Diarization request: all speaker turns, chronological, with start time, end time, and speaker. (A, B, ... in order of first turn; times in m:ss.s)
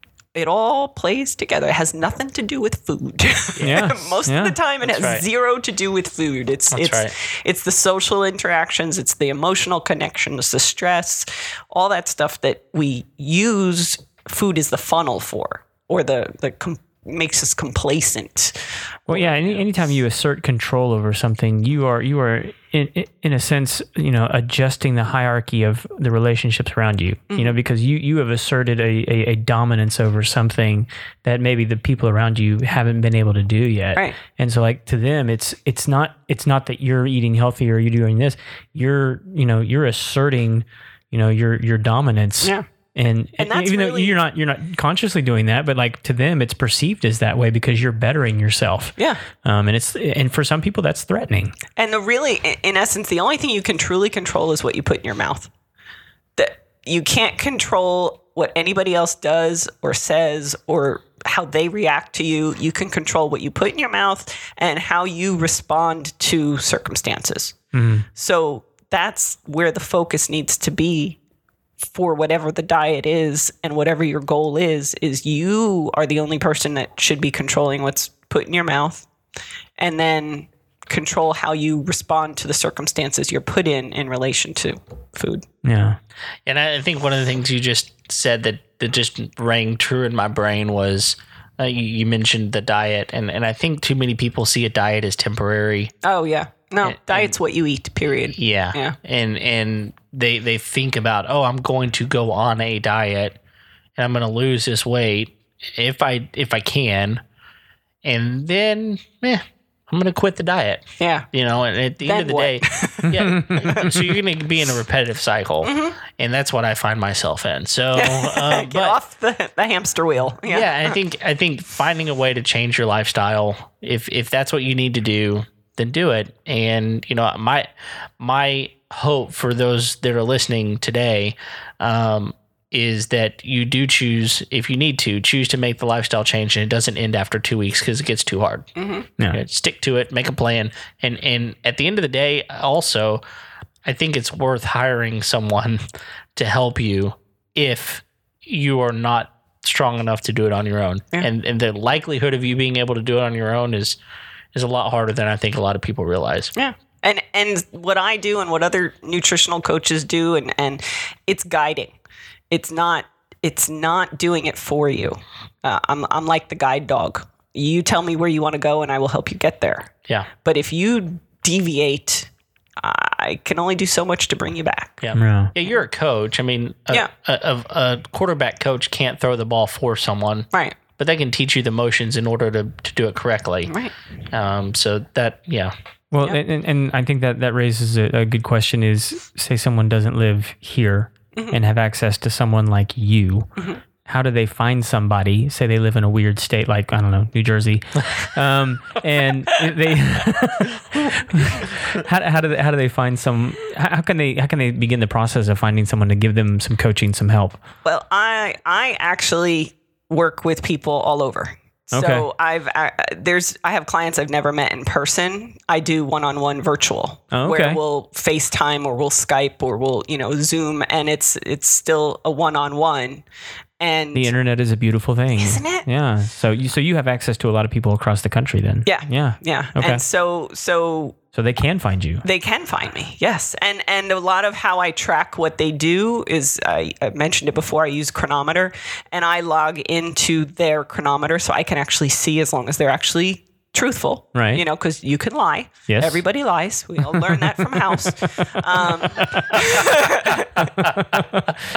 0:00.3-0:19.6 A
0:03.6-0:03.9 B
0:03.6-0:04.6 C
0:04.8-0:05.2 B
0:06.7-0:07.1 B
0:19.1-0:51.5 C
0:27.3-0:27.5 A
0:43.4-0:44.2 A
0:51.8-0:55.5 A
0:56.4-1:07.6 A
1:07.7-1:08.0 C
1:08.1-1:11.2 A
1:11.8-1:19.1 A
1:19.8-1:25.4 A
1:25.6-1:26.0 C
1:26.4-1:35.9 B
1:36.0-1:39.0 A
1:36.8-1:37.3 B
1:38.3-1:43.4 B
1:44.0-1:47.2 B
1:48.0-1:59.0 B
1:51.0-1:51.2 A
1:52.0-1:54.0 A
1:53.1-1:53.6 C
1:55.6-1:56.0 A
1:57.9-2:01.0 A
2:00.4-2:18.7 B
2:18.8-2:19.1 A
2:19.3-2:23.2 B
2:23.8-2:25.8 B
2:26.3-2:34.0 B
2:34.5-2:36.5 B
2:36.6-2:41.9 A
2:42.5-2:49.9 A
2:50.4-2:54.9 A
2:55.0-3:03.7 B
2:55.2-2:55.5 C
3:03.7-3:03.9 A
3:04.3-3:05.7 B
3:06.1-3:13.5 C
3:13.6-3:13.8 A
3:14.0-3:27.6 C
3:27.8-3:43.2 A
3:31.9-3:32.2 C
3:37.3-3:37.8 C
3:43.8-3:44.3 A
3:44.1-3:50.0 C
3:45.4-3:45.8 A
3:48.8-3:51.2 A
3:51.3-3:52.2 C
3:52.2-4:10.9 A
4:04.3-4:04.6 C
4:05.9-4:06.2 C
4:07.0-4:08.0 C
4:10.6-4:11.5 C